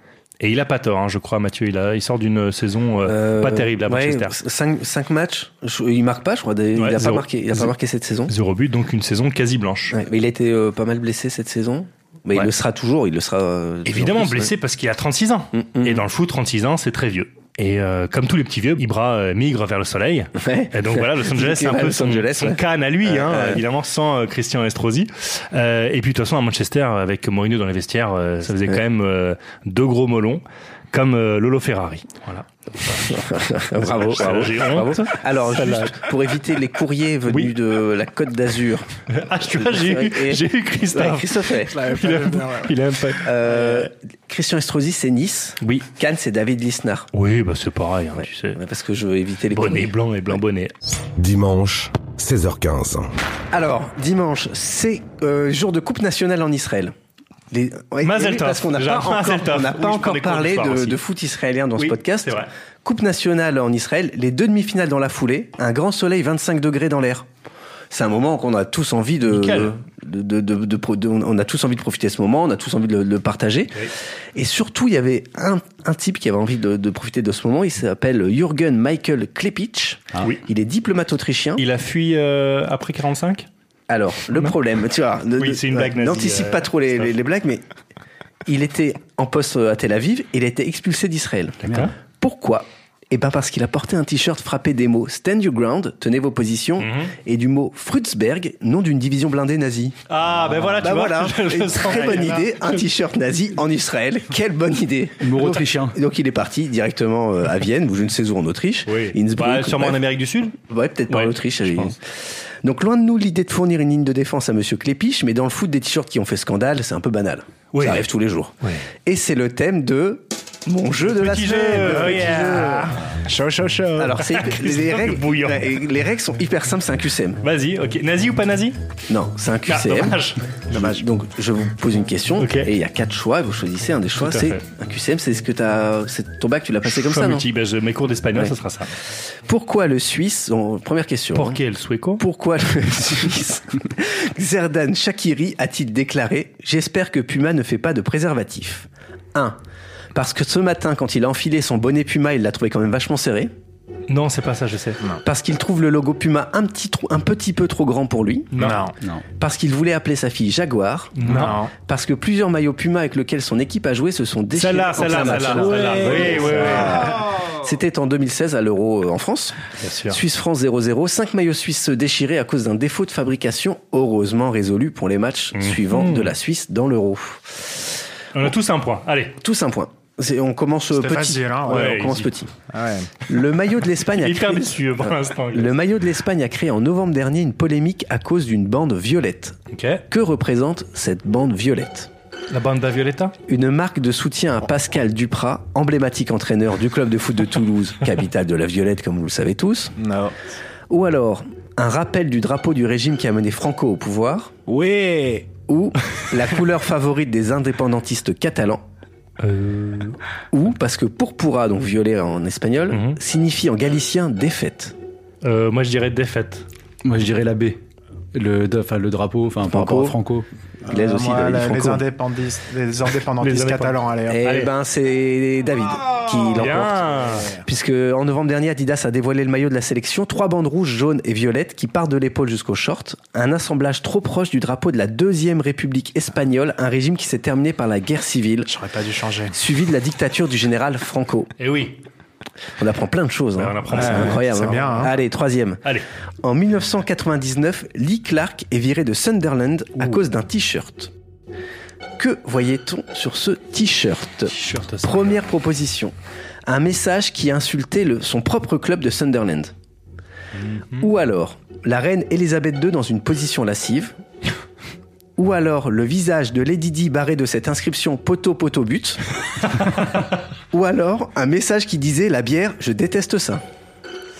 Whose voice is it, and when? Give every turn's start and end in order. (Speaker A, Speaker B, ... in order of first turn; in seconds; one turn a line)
Speaker A: 0.4-4.4
Speaker B: 3.0-8.3
Speaker A: 6.8-7.7
Speaker A: 8.3-10.0
Speaker B: 9.9-14.5
Speaker A: 13.9-36.1
Speaker B: 15.5-16.0
Speaker B: 20.4-23.6
Speaker B: 33.1-39.0
Speaker A: 39.1-43.9
Speaker B: 39.5-41.8
Speaker C: 41.7-42.7
Speaker B: 43.2-47.1
Speaker A: 45.6-45.9
Speaker A: 47.1-48.6
Speaker B: 48.2-49.9
Speaker A: 49.5-50.7
Speaker D: 51.2-53.1
Speaker B: 53.5-56.9
Speaker B: 57.5-67.3
Speaker A: 58.0-61.0
Speaker A: 61.8-62.5
Speaker B: 67.9-73.8
Speaker A: 69.3-69.7
Speaker B: 74.3-81.6
Speaker A: 81.6-83.5
Speaker B: 83.9-87.6
Speaker A: 85.4-87.1
Speaker B: 88.5-91.6
Speaker E: 91.6-91.9
Speaker A: 91.6-91.9
Speaker B: 92.2-100.0
Speaker A: 96.8-97.1
Speaker A: 100.1-102.6
Speaker E: 100.5-100.8
Speaker B: 100.8-110.0
Speaker C: 101.9-102.4
Speaker E: 105.2-106.0
Speaker A: 108.9-110.5
Speaker B: 110.6-112.0
Speaker A: 111.1-111.8
Speaker B: 112.6-118.5
Speaker A: 117.7-118.0
Speaker B: 119.0-122.9
Speaker A: 121.0-122.6
Speaker C: 121.8-124.3
Speaker B: 124.0-127.4
Speaker A: 124.4-125.7
Speaker A: 127.4-128.8
Speaker B: 129.1-130.2
Speaker A: 129.7-130.5
Speaker C: 130.7-131.1
Speaker B: 130.7-137.4
Speaker A: 132.4-132.7
Speaker A: 134.2-134.6
Speaker A: 136.8-138.9
Speaker B: 139.5-141.6
Speaker A: 141.3-142.2
Speaker B: 142.2-149.6
Speaker B: 150.1-153.5
Speaker A: 154.1-155.0
Speaker B: 155.2-158.5
Speaker A: 158.5-158.9
Speaker C: 158.6-158.9
Speaker B: 159.4-161.1
Speaker A: 161.2-161.6
Speaker C: 161.2-161.7
Speaker B: 161.8-177.6
Speaker A: 164.6-167.2
Speaker E: 165.5-167.0
Speaker A: 169.8-170.2
Speaker A: 175.5-176.3
Speaker A: 178.3-179.4
Speaker B: 179.4-182.5
Speaker C: 180.9-182.1
Speaker A: 181.7-182.3
Speaker C: 182.7-183.1
Speaker B: 183.3-189.6
Speaker A: 184.1-185.8
Speaker A: 189.7-190.0
Speaker B: 190.1-192.1
Speaker A: 192.5-193.3
Speaker B: 193.5-199.9
Speaker C: 200.0-200.4
Speaker B: 200.9-204.5
Speaker C: 204.7-205.5
Speaker B: 205.7-208.8
Speaker A: 209.4-210.2
Speaker B: 210.5-214.9
Speaker A: 212.9-213.2
Speaker A: 215.4-216.7
Speaker E: 217.0-217.8
Speaker E: 218.3-220.5
Speaker B: 219.7-220.1
Speaker B: 220.9-222.0
Speaker C: 220.9-224.4
Speaker A: 223.4-224.7
Speaker B: 224.3-238.7
Speaker A: 226.6-227.5
Speaker C: 238.7-239.5
Speaker B: 239.5-241.5
Speaker A: 241.6-242.0
Speaker B: 242.8-245.8
Speaker A: 243.6-244.8
Speaker C: 243.9-245.1
Speaker B: 246.4-251.1
Speaker B: 252.2-256.1
Speaker A: 254.5-255.4
Speaker B: 256.7-259.7
Speaker A: 260.6-261.1
Speaker B: 261.0-264.1
Speaker B: 265.4-269.2
Speaker B: 270.7-273.6